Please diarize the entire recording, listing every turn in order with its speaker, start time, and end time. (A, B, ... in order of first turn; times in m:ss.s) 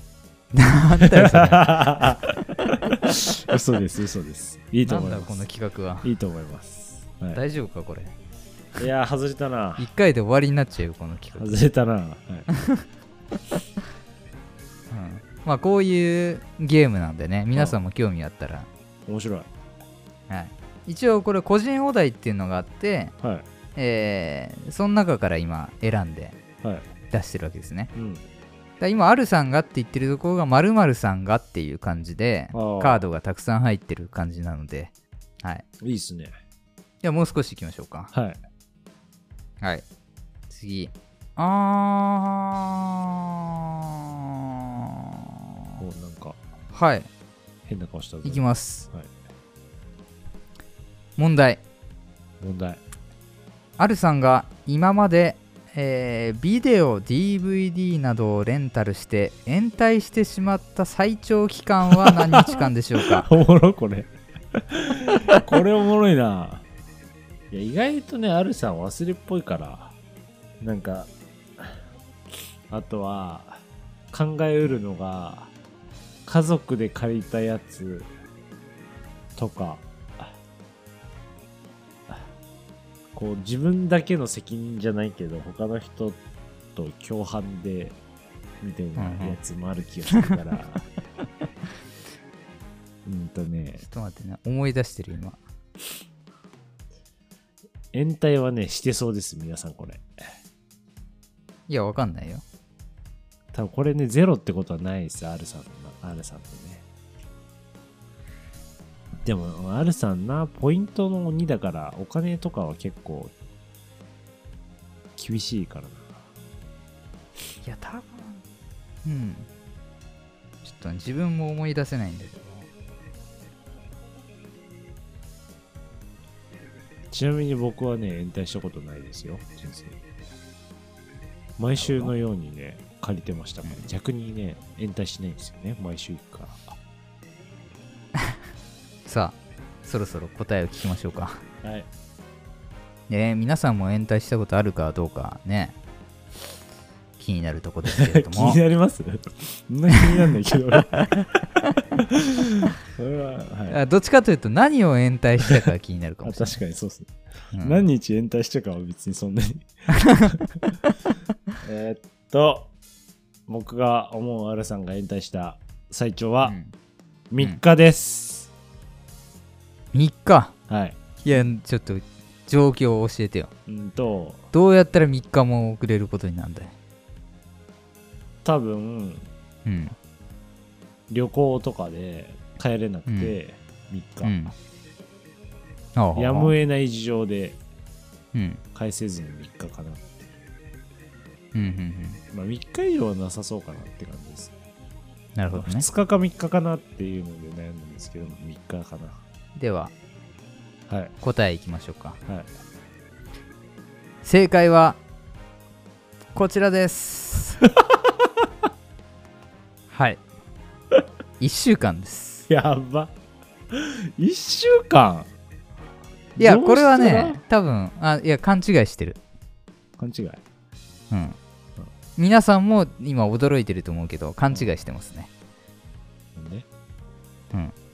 0:00.5-0:01.8 A
0:01.0-0:05.5 B
0:04.8-0:06.1 A
0:06.0-0:07.4 B
0:07.3-0:08.2 A
0:08.8-0:09.9 B
0:09.8-0:11.6 A
0:11.4-0:12.5 B
0:14.9-0:18.7 A
0:17.6-0:17.8 B
0:19.1-0:19.5 B
0:20.3-0:23.1 A
0:23.8-0:26.4 A
0:27.1-0:27.9 A
0:28.0-0:28.2 B
0:28.8-0:35.6 A
0:32.5-0:33.0 B
0:35.8-0:36.3 B
0:37.0-0:38.1 A
0:38.1-0:38.4 B
0:40.5-0:43.1 A
0:45.8-0:46.4 B
0:46.7-0:47.1 A
0:47.7-0:49.1 B
0:48.2-0:48.9 A
0:51.2-0:51.6 A
0:52.4-0:52.8 B
0:53.8-1:03.3 A
1:02.0-1:06.6 B
1:07.5-1:10.0 B
1:10.6-1:11.8 B
1:12.7-1:15.5 B
1:16.3-1:18.1 B
1:19.4-1:20.4 B
1:23.2-1:26.2 B
1:26.8-1:28.0 B
1:28.6-1:30.8 B
1:29.0-1:29.4 A
1:33.0-1:33.8 B
1:33.8-1:35.4 A
1:37.9-1:40.1 B
1:41.7-1:42.4 A
1:43.5-1:46.8 B
1:49.2-1:53.3 B
1:55.2-1:56.1 B
1:57.6-1:58.4 A
1:59.0-1:59.5 A
2:00.6-2:02.7 A
2:07.1-2:10.0 B
2:11.6-2:16.8 B
2:11.8-2:12.1 A
2:19.0-2:21.4 A
2:21.6-2:21.9 B
2:23.1-2:25.8 A
2:27.2-2:28.6 A
2:27.9-2:31.3 B
2:32.0-2:33.8 B
2:33.7-2:36.6 A
2:36.2-2:39.7 B
2:37.5-2:37.8 A
2:39.9-2:40.9 A
2:41.6-2:42.7 B
2:43.5-2:46.6 B
2:46.4-2:46.7 A
2:47.3-2:48.5 B
2:49.9-2:50.6 A
2:50.7-2:51.5 B
2:51.2-2:53.5 A
2:53.7-2:54.5 B
2:54.5-2:56.7 A
2:58.4-2:59.3 B
2:59.6-3:00.0 A
3:01.1-3:04.4 B
3:03.1-3:03.4 A
3:04.2-3:04.5 A
3:06.0-3:06.5 A
3:06.2-3:07.6 B
3:08.3-3:08.6 A
3:08.8-3:10.4 B
3:11.5-3:12.2 A
3:12.3-3:14.6 B
3:15.4-3:15.8 A
3:15.5-3:19.2 B
3:19.6-3:19.9 A
3:20.9-3:21.1 B
3:21.2-3:22.2 A
3:24.2-3:25.0 A
3:26.4-3:27.6 A
3:27.7-3:28.5 B
3:29.9-3:30.2 A
3:31.4-3:32.5 A
3:32.5-3:33.1 B
3:33.7-3:35.3 B
3:36.4-3:37.4 B
3:36.4-3:39.2 A
3:40.0-3:40.4 B
3:41.1-3:41.4 A
3:42.2-3:45.3 A
3:46.4-3:46.7 B